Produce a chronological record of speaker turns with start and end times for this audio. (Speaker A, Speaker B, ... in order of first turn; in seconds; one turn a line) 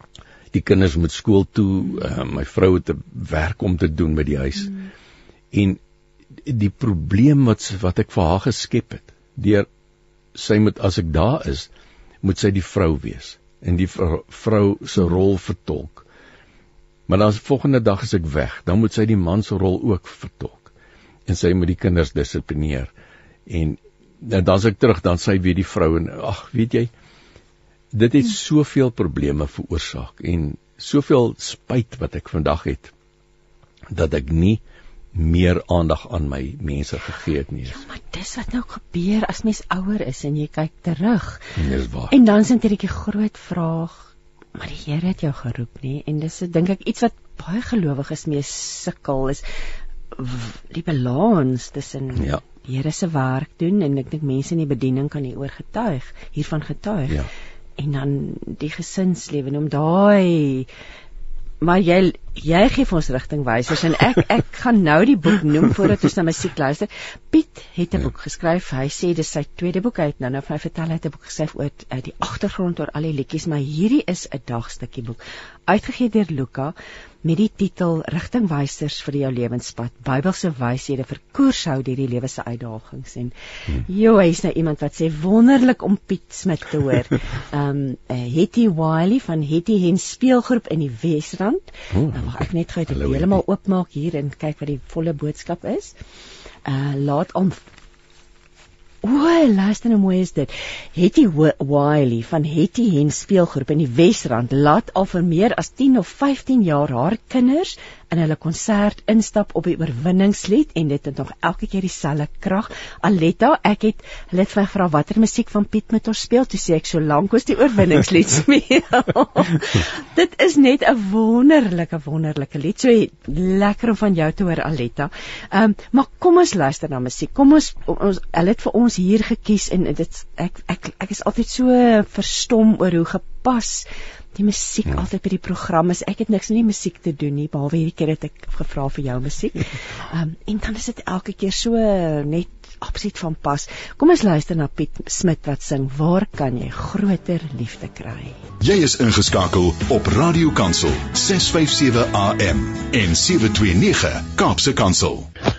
Speaker A: 0.5-4.9
Speaker A: 5.5-5.8
Speaker A: 6.4-9.7
Speaker A: 10.3-11.7
Speaker A: 12.2-16.1
Speaker A: 17.1-20.7
Speaker A: 21.3-22.9
Speaker A: 23.5-26.9
Speaker A: 27.9-32.9
Speaker A: 33.9-34.6
Speaker A: 35.1-37.8
Speaker B: 37.7-41.6
Speaker A: 41.5-42.1
Speaker B: 42.1-49.5
Speaker B: 50.1-60.7
Speaker A: 52.2-52.4
Speaker B: 61.6-96.0
Speaker A: 91.9-93.4
Speaker B: 96.7-97.6
Speaker B: 99.0-148.4
Speaker C: 148.6-155.3